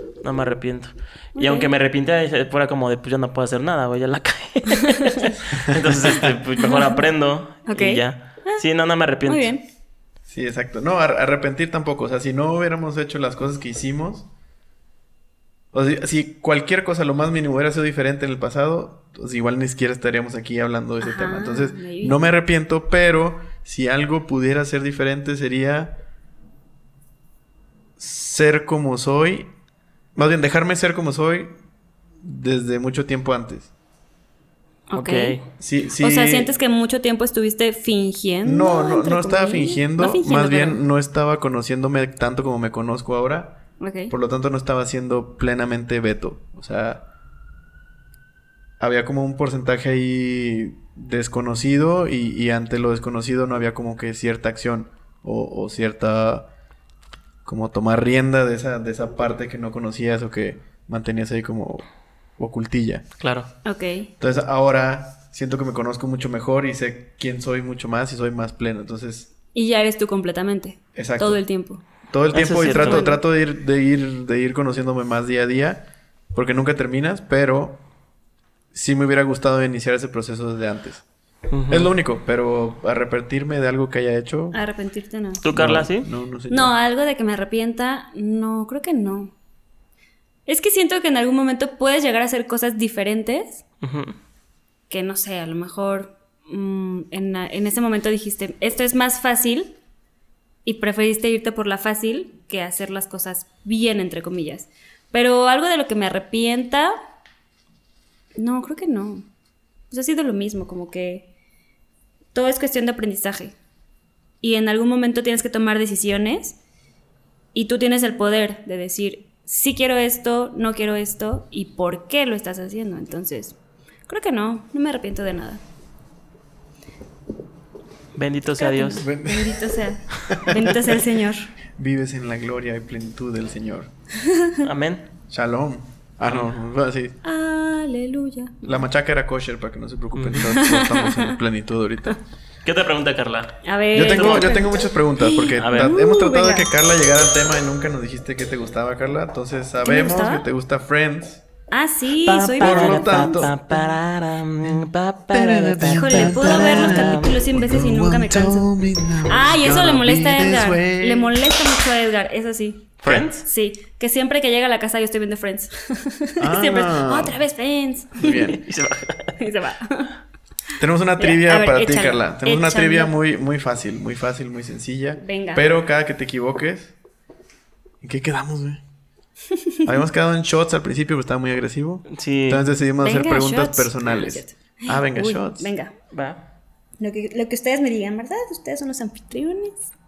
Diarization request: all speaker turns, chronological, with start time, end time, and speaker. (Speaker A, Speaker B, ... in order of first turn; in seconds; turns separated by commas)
Speaker A: 0.2-9.5, Speaker B: 1.4-1.7, Speaker B: 6.6-6.9, Speaker B: 7.7-8.6, Speaker B: 9.2-9.6, Speaker C: 10.3-14.3, Speaker C: 15.7-25.9, Speaker B: 21.0-22.2, Speaker C: 28.0-29.5, Speaker C: 30.1-31.5, Speaker C: 32.2-33.7, Speaker B: 34.9-35.4, Speaker A: 34.9-35.4, Speaker C: 35.6-36.5, Speaker B: 36.0-40.8, Speaker C: 38.4-43.6, Speaker B: 43.8-44.1, Speaker C: 44.1-47.0, Speaker C: 48.8-56.5, Speaker C: 57.4-61.9, Speaker C: 62.4-63.0, Speaker A: 63.2-63.5, Speaker B: 63.6-64.1, Speaker C: 64.2-69.3, Speaker B: 69.5-71.8, Speaker C: 70.9-71.4, Speaker C: 72.1-77.8, Speaker A: 72.3-73.1, Speaker B: 72.6-73.2, Speaker C: 78.7-81.0, Speaker A: 81.5-81.9, Speaker C: 81.7-84.6, Speaker B: 84.5-85.4, Speaker A: 85.4-86.1, Speaker C: 85.5-86.7, Speaker B: 86.5-89.3, Speaker B: 90.5-93.6, Speaker A: 93.8-94.2, Speaker B: 94.9-99.8, Speaker B: 100.6-107.0, Speaker B: 108.4-109.3, Speaker B: 109.9-111.3, Speaker B: 112.3-113.5, Speaker B: 114.4-116.6, Speaker B: 117.5-123.5, Speaker B: 124.1-125.6, Speaker A: 128.2-129.0, Speaker B: 128.6-131.5, Speaker C: 128.9-129.7, Speaker C: 130.3-130.8, Speaker C: 131.8-133.9, Speaker B: 134.2-134.6, Speaker A: 134.6-135.1, Speaker C: 135.3-137.2, Speaker B: 137.2-138.8, Speaker C: 138.6-142.2, Speaker A: 140.1-140.4, Speaker B: 140.3-141.4, Speaker A: 142.6-143.6, Speaker B: 143.6-146.7, Speaker C: 143.9-151.4, Speaker A: 144.1-144.5, Speaker A: 145.6-145.9, Speaker B: 149.8-150.4, Speaker B: 151.7-153.6, Speaker A: 152.2-157.3, Speaker C: 152.6-153.5, Speaker C: 155.3-161.3, Speaker B: 155.9-158.7, Speaker B: 159.2-168.5, Speaker A: 163.0-163.4, Speaker C: 166.4-167.4, Speaker C: 168.2-168.6, Speaker A: 168.5-169.3, Speaker B: 169.4-170.1, Speaker C: 170.8-176.9, Speaker B: 171.2-173.1, Speaker B: 175.2-175.7, Speaker C: 178.0-178.8, Speaker B: 179.7-179.9, Speaker C: 179.8-185.7, Speaker A: 182.1-182.6, Speaker B: 183.0-185.9, Speaker A: 186.1-186.4, Speaker B: 187.0-189.9